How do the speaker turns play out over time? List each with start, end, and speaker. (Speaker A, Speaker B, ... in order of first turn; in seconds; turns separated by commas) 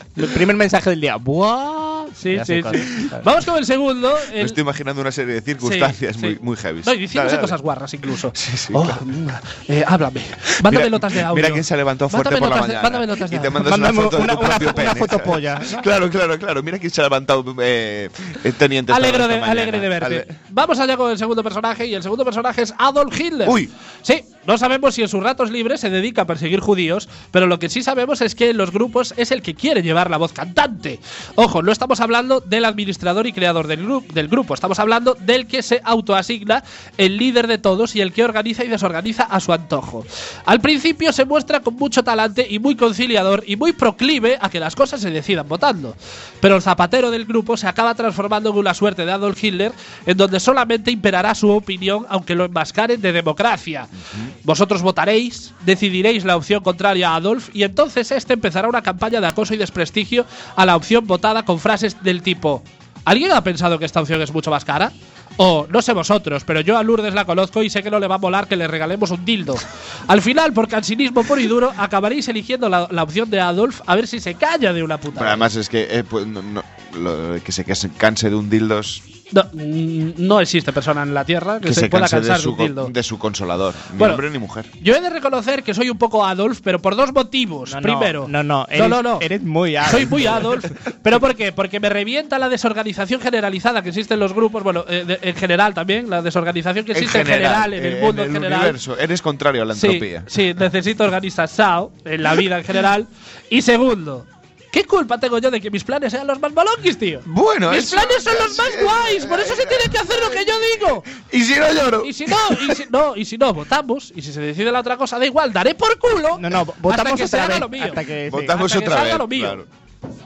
Speaker A: 0.1-3.2, Speaker B: 2.2-4.6, Speaker C: 4.3-7.6, Speaker B: 5.6-14.0, Speaker C: 8.2-9.0, Speaker C: 10.6-20.3, Speaker A: 13.6-15.8, Speaker B: 18.9-75.5, Speaker C: 23.4-23.7, Speaker C: 75.1-79.0, Speaker B: 79.3-82.9, Speaker C: 81.6-84.7, Speaker B: 84.0-84.2, Speaker B: 84.8-89.3, Speaker A: 87.7-90.6, Speaker B: 89.8-98.8, Speaker C: 96.9-100.3, Speaker B: 99.7-111.1, Speaker C: 107.2-112.8, Speaker B: 112.0-119.6, Speaker A: 116.4-118.6, Speaker C: 118.3-119.7